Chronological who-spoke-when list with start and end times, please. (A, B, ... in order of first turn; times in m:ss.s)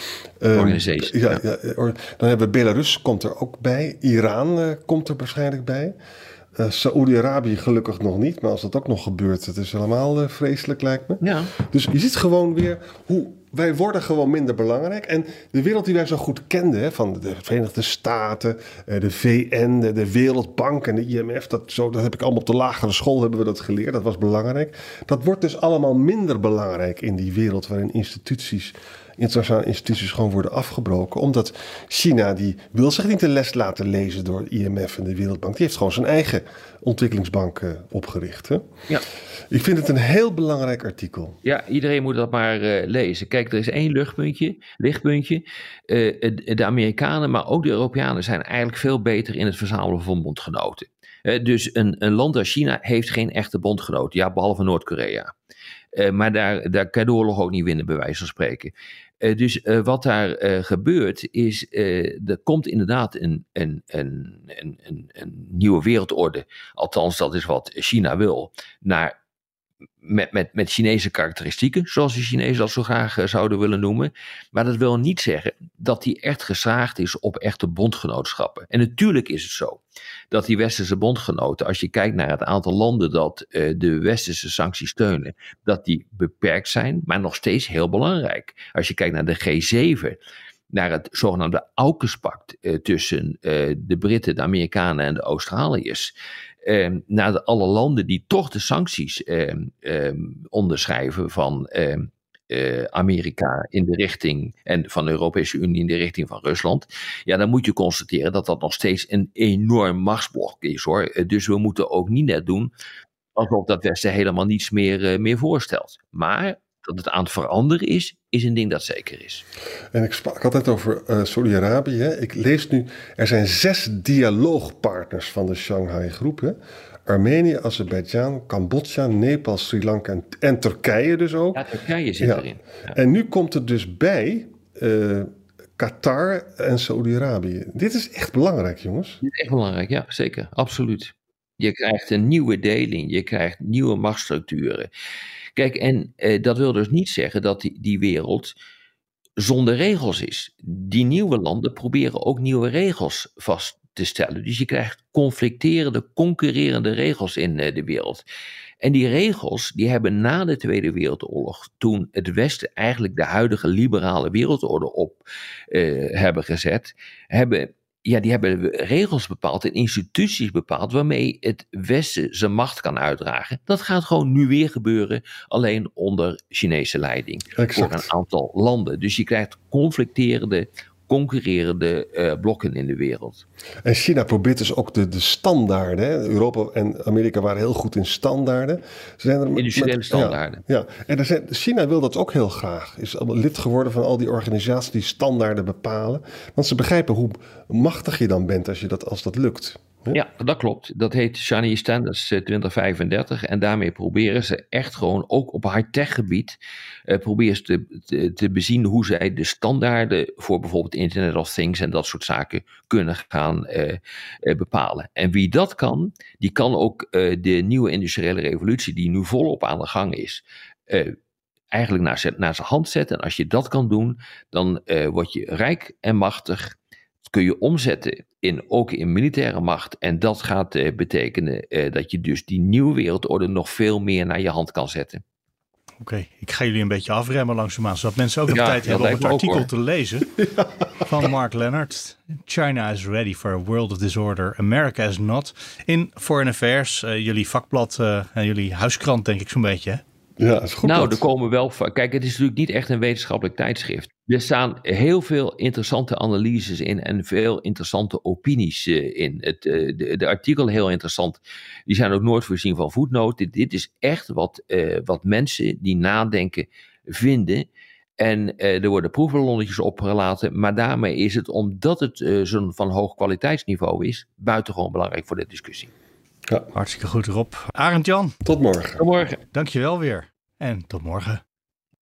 0:00.4-0:05.9 A
0:00.5-0:01.4 B
0:06.6-0:38.6 A
0:11.2-0:11.5 B
0:39.5-0:41.4 A
0:41.4-0:55.3 B
0:55.9-1:09.1 B
1:10.0-1:30.2 B
1:30.7-1:36.1 B
1:36.6-1:52.7 B
1:53.4-1:59.4 B
1:59.9-2:06.6 A
2:07.1-2:11.6 A
2:11.5-2:13.0 B
2:12.2-2:19.2 A
2:19.2-2:24.9 B
2:25.5-2:28.5 B
2:29.4-2:38.2 B
2:38.8-3:03.4 B
2:57.6-2:58.1 A
3:03.8-3:20.2 A
3:09.5-3:10.6 B
3:20.1-3:41.1 B
3:41.7-3:55.2 B
3:56.0-4:00.4 C
3:58.5-3:59.7 B
4:00.4-4:00.7 A
4:01.0-4:10.0 C
4:10.4-4:11.2 A
4:10.8-4:27.7 B
4:28.2-4:35.9 B
4:36.7-4:38.3 C
4:38.4-4:39.0 A
4:39.0-4:39.4 B
4:39.5-4:41.4 C